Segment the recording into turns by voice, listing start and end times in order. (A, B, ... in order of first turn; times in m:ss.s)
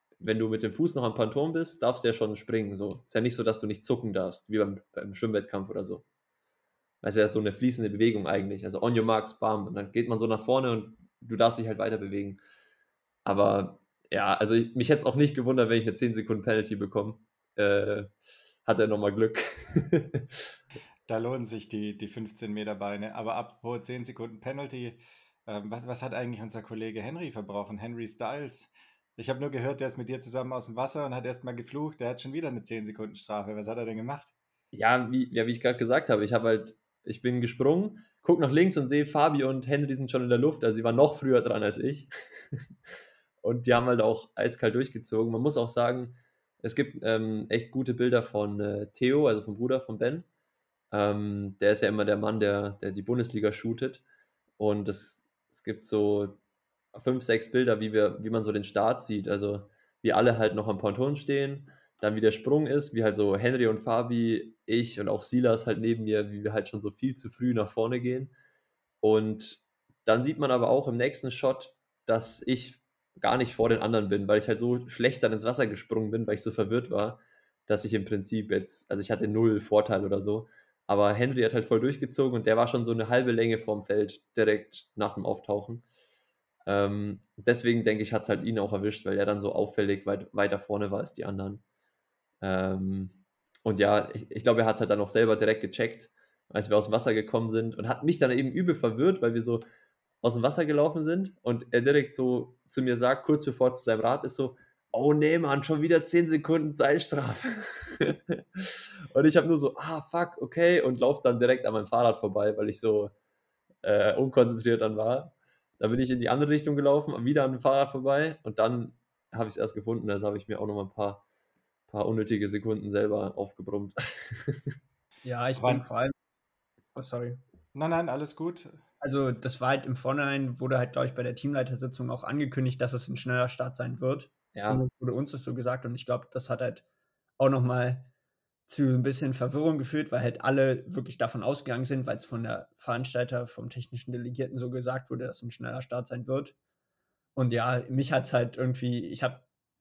0:00.2-0:06.0 A
0:07.0-0:12.4 A
0:13.2-0:18.1 A
0:18.6-0:20.4 A
0:21.1-0:34.3 B
0:34.7-0:42.6 A
0:43.4-0:50.3 A
0:50.9-0:54.0 A
0:54.6-0:56.4 A
0:56.9-1:08.3 A
1:09.0-1:25.8 A
1:26.6-1:31.6 A
1:32.4-1:39.6 A
1:40.2-1:53.1 A
1:53.8-2:01.2 A
2:01.9-2:04.7 A
2:05.2-2:06.1 C
2:05.6-2:05.8 B
2:06.9-2:07.4 C
2:07.7-2:08.8 B
2:09.0-2:16.8 C
2:14.5-2:14.8 A
2:17.4-2:18.1 C
2:18.7-2:26.5 C
2:27.4-2:29.4 C